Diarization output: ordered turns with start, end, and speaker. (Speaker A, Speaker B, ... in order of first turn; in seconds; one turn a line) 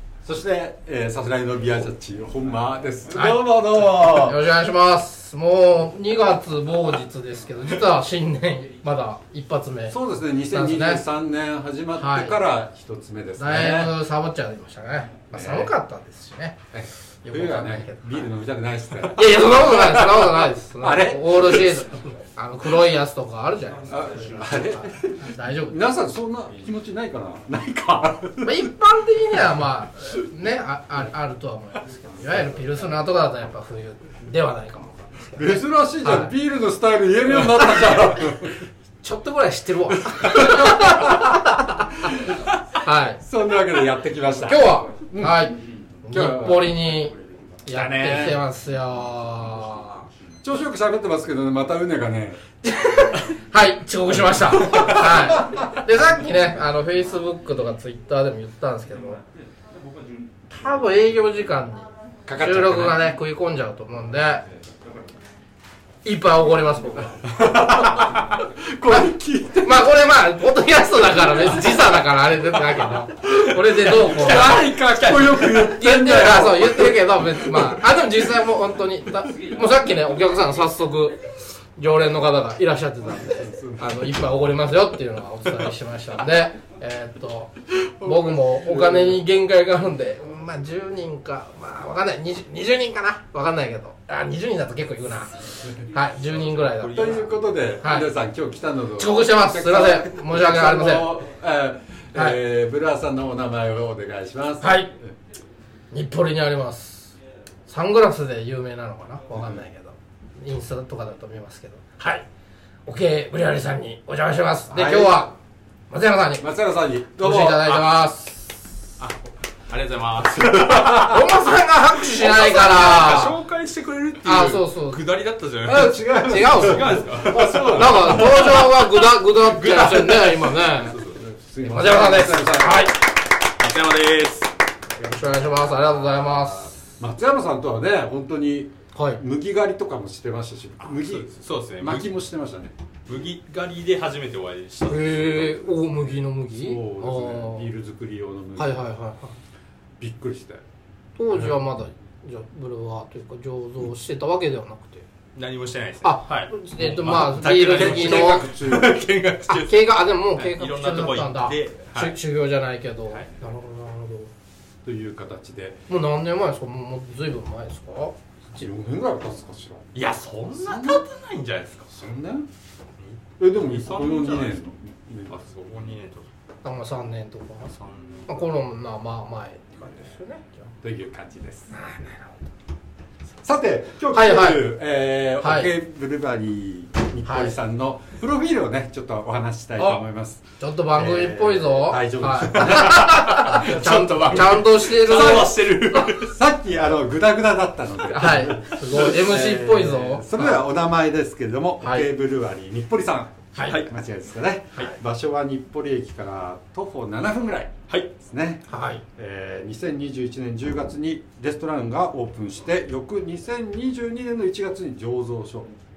Speaker A: 0.2-4.5
Speaker B: 3.1-11.1
Speaker A: 9.9-14.0
Speaker B: 11.9-12.4
Speaker B: 13.4-16.6
Speaker A: 15.3-15.7
Speaker A: 16.7-21.9
Speaker B: 17.2-18.3
Speaker B: 19.1-25.8
Speaker A: 23.9-28.7
Speaker B: 28.4-36.3
Speaker A: 32.2-32.7
Speaker A: 35.4-38.6
Speaker B: 39.0-42.1
Speaker A: 40.0-42.5
Speaker B: 42.8-43.2
Speaker A: 43.2-45.5
Speaker B: 44.5-50.1
Speaker A: 46.1-46.8
Speaker A: 47.7-48.4
Speaker A: 50.4-52.4
Speaker B: 52.6-59.2
Speaker A: 54.6-55.7
Speaker B: 60.5-64.4
Speaker A: 62.3-63.1
Speaker B: 66.0-68.2
Speaker A: 67.2-70.1
Speaker B: 69.6-74.7
Speaker A: 71.0-71.6
Speaker A: 73.2-77.8
Speaker C: 74.4-75.8
Speaker B: 75.7-81.2
Speaker B: 81.8-97.2
Speaker A: 83.2-84.1
Speaker A: 88.0-89.2
Speaker C: 96.2-97.4
Speaker A: 96.9-105.2
Speaker B: 97.8-98.1
Speaker B: 99.0-101.2
Speaker B: 104.6-104.9
Speaker B: 105.9-107.2
Speaker B: 107.7-112.3
Speaker A: 109.3-109.6
Speaker B: 112.9-115.4
Speaker A: 114.7-115.3
Speaker B: 115.9-116.5
Speaker A: 116.4-117.8
Speaker B: 117.2-118.5
Speaker C: 119.0-121.2
Speaker B: 121.0-123.4
Speaker C: 122.0-131.2
Speaker B: 124.2-125.0
Speaker A: 125.6-128.6
Speaker B: 126.3-130.9
Speaker A: 131.2-132.9
Speaker B: 131.6-133.0
Speaker C: 133.6-134.5
Speaker B: 135.0-136.8
Speaker A: 137.0-142.7
Speaker B: 138.9-139.2
Speaker C: 140.9-142.1
Speaker C: 143.1-145.7
Speaker B: 144.9-147.7
Speaker A: 145.7-148.9
Speaker B: 148.6-149.3
Speaker A: 150.0-150.6
Speaker B: 151.2-155.1
Speaker C: 155.3-162.2
Speaker B: 156.0-158.5
Speaker A: 156.8-159.0
Speaker B: 159.5-164.3
Speaker A: 164.8-165.8
Speaker B: 165.9-168.7
Speaker A: 168.6-169.9
Speaker C: 169.9-171.9
Speaker A: 170.5-171.0
Speaker A: 171.9-172.5
Speaker C: 173.0-174.6
Speaker A: 173.4-175.4
Speaker C: 175.3-176.3
Speaker B: 176.6-177.7
Speaker C: 177.7-178.3
Speaker B: 178.3-180.7
Speaker A: 180.8-181.7
Speaker B: 181.7-182.3
Speaker A: 183.4-193.7
Speaker B: 184.1-184.8
Speaker B: 185.4-185.7
Speaker B: 187.2-187.6
Speaker B: 190.6-196.0
Speaker C: 192.6-196.3
Speaker A: 195.0-195.6
Speaker A: 196.1-215.7
Speaker B: 198.1-200.6
Speaker B: 201.8-202.1
Speaker B: 203.6-203.8
Speaker B: 208.7-209.0